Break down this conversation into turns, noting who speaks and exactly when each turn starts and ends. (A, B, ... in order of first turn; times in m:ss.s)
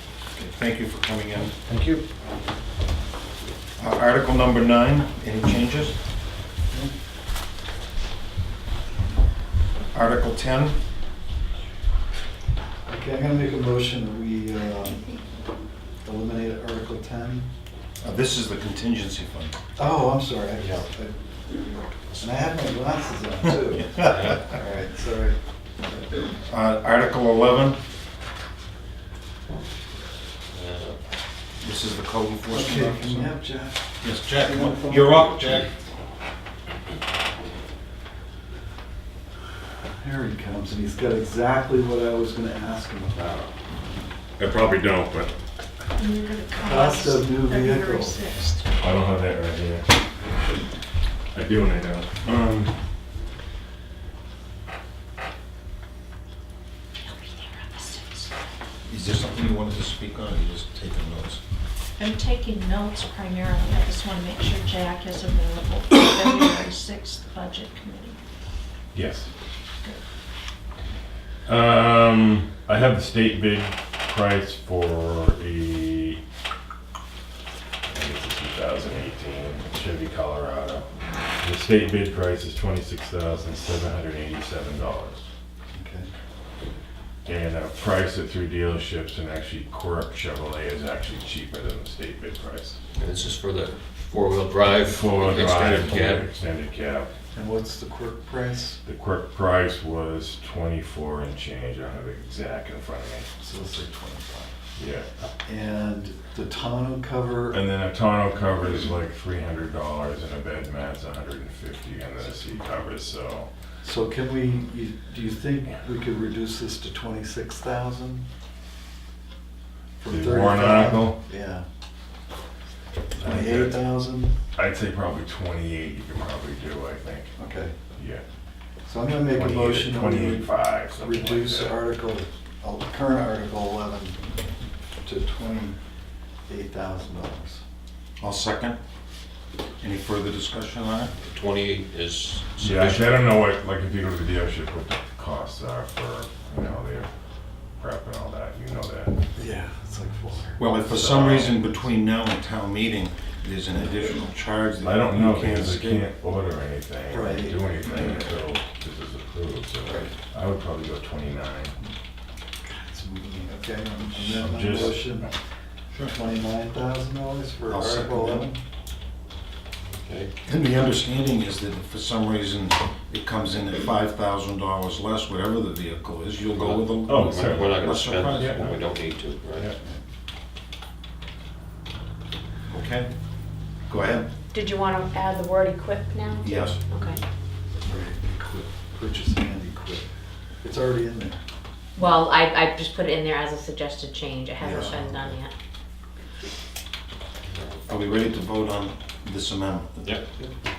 0:00.3-0:01.6 A
0:01.6-0:02.0 B
0:03.8-0:05.9 A
0:09.9-0:10.8 A
0:12.8-0:15.0 B
0:16.0-0:17.5 B
0:18.0-0:19.5 A
0:19.8-0:21.1 B
0:22.2-0:26.1 B
0:24.0-0:24.4 C
0:26.4-0:27.8 A
0:30.5-0:31.0 C
0:31.6-0:33.3 A
0:32.5-0:35.5 B
0:34.0-0:35.7 A
0:40.0-0:43.5 B
0:44.4-0:45.3 D
0:46.0-0:48.7 E
0:46.5-0:48.2 B
0:48.8-0:49.9 D
0:51.3-0:52.7 D
0:57.0-0:58.3 E
0:58.8-1:01.4 A
1:02.0-1:08.2 E
1:08.9-1:09.3 D
1:11.4-1:16.2 D
1:17.9-1:20.9 D
1:21.4-1:25.2 D
1:25.7-1:26.1 B
1:27.2-1:32.8 D
1:33.0-1:36.2 C
1:34.8-1:37.1 D
1:37.3-1:38.8 B
1:38.8-1:43.3 D
1:43.4-1:44.5 B
1:44.8-1:45.0 D
1:45.4-1:47.6 B
1:47.5-1:53.5 D
1:53.8-1:58.2 B
2:00.0-2:01.6 B
2:00.1-2:01.2 D
2:03.2-2:03.9 D
2:03.2-2:04.3 B
2:04.6-2:07.3 D
2:07.4-2:07.7 B
2:08.0-2:08.2 D
2:08.9-2:14.2 B
2:09.3-2:11.8 D
2:15.0-2:15.8 B
2:16.5-2:17.6 B
2:18.2-2:18.8 A
2:19.8-2:21.1 A
2:21.2-2:23.2 C
2:22.6-2:27.1 D
2:27.8-2:29.2 D
2:29.4-2:30.6 B
2:30.6-2:36.0 A
2:30.8-2:31.7 D
2:34.8-2:41.7 D
2:37.1-2:38.1 B
2:42.7-2:45.3 B
2:44.2-2:45.1 D
2:46.1-2:48.6 B
2:47.7-2:48.5 A
2:50.0-2:50.3 C
2:50.4-2:58.6 A
2:56.5-2:59.7 C
2:57.1-2:58.8 D
3:02.7-3:03.1 A
3:03.9-3:04.3 A
3:04.5-3:07.2 F
3:06.4-3:06.8 A
3:07.8-3:10.0 B
3:10.6-3:11.4 B
3:12.0-3:15.5 F
3:14.6-3:15.0 A
3:14.6-3:15.3 B
3:17.9-3:20.2 A